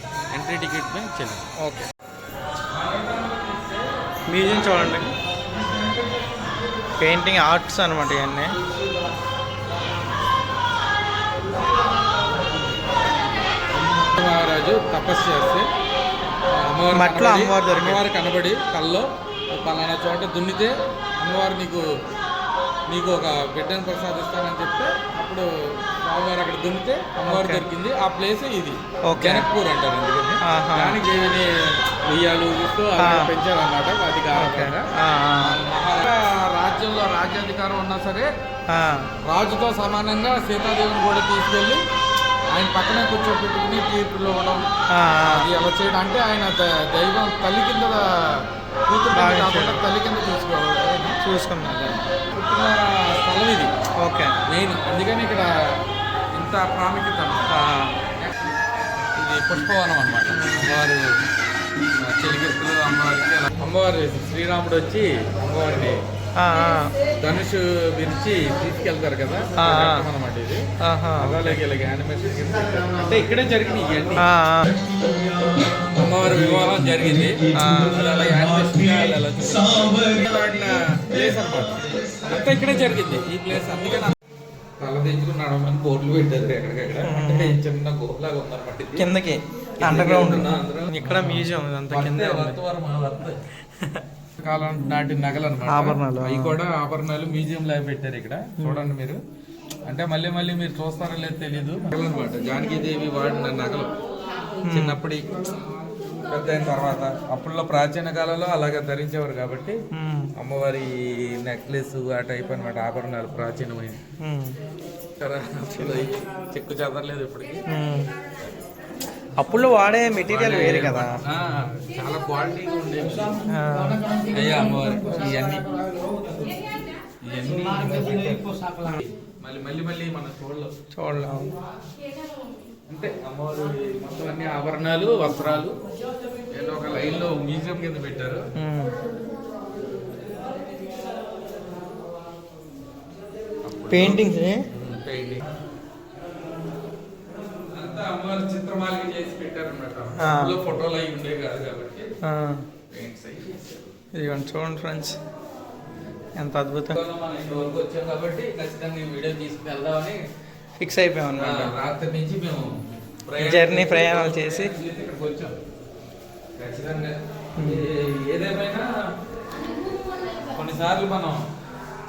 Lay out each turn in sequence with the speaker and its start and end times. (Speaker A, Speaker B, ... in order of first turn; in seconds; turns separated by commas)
Speaker A: 0.3-1.5, Speaker B: 1.6-1.9, Speaker A: 2.7-6.4, Speaker B: 4.3-5.1, Speaker B: 7.0-8.6, Speaker A: 13.8-15.7, Speaker A: 16.5-21.9, Speaker B: 16.9-18.0, Speaker A: 22.9-38.3, Speaker B: 27.2-27.6, Speaker B: 29.1-29.5, Speaker B: 30.4-31.0, Speaker B: 33.0-33.3, Speaker B: 34.4-35.6, Speaker B: 38.7-39.1, Speaker A: 39.2-41.8, Speaker A: 42.5-44.6, Speaker B: 44.9-45.5, Speaker A: 45.3-53.7, Speaker B: 49.1-49.8, Speaker B: 51.2-51.8, Speaker B: 54.0-54.4, Speaker A: 54.5-55.5, Speaker A: 56.3-57.5, Speaker B: 57.5-57.9, Speaker A: 58.2-58.5, Speaker A: 59.2-61.1, Speaker B: 60.3-60.7, Speaker A: 62.0-66.0, Speaker B: 66.4-67.0, Speaker A: 67.2-70.7, Speaker B: 69.6-70.1, Speaker B: 70.8-71.6, Speaker A: 71.2-74.2, Speaker B: 74.2-74.8, Speaker A: 75.8-84.2, Speaker B: 77.5-78.0, Speaker A: 84.8-89.1, Speaker B: 87.0-87.6, Speaker B: 89.0-92.6, Speaker A: 89.8-93.4, Speaker A: 94.4-99.2, Speaker B: 95.7-96.6, Speaker B: 98.6-98.9, Speaker A: 99.9-103.9, Speaker B: 104.7-105.0, Speaker A: 104.7-105.3, Speaker A: 106.3-109.8, Speaker B: 109.9-110.3, Speaker A: 110.4-114.0, Speaker B: 114.2-114.6, Speaker A: 115.2-117.7, Speaker B: 115.8-116.1, Speaker B: 117.7-118.1, Speaker B: 119.4-121.2, Speaker A: 120.2-123.4, Speaker B: 123.5-124.0, Speaker A: 124.3-125.7, Speaker A: 127.2-130.7, Speaker B: 130.9-131.5, Speaker A: 132.9-135.8, Speaker A: 136.5-138.4, Speaker B: 138.6-138.9, Speaker A: 143.7-145.5, Speaker B: 143.9-144.7, Speaker A: 147.7-152.1, Speaker B: 150.2-150.6, Speaker B: 152.2-152.7, Speaker A: 152.9-153.8, Speaker B: 154.2-155.2, Speaker B: 156.4-157.0, Speaker A: 156.9-160.2, Speaker B: 160.8-161.7, Speaker A: 161.3-162.7, Speaker A: 163.3-165.6, Speaker B: 163.4-164.7, Speaker A: 166.6-168.9, Speaker B: 167.6-167.8, Speaker A: 170.5-171.5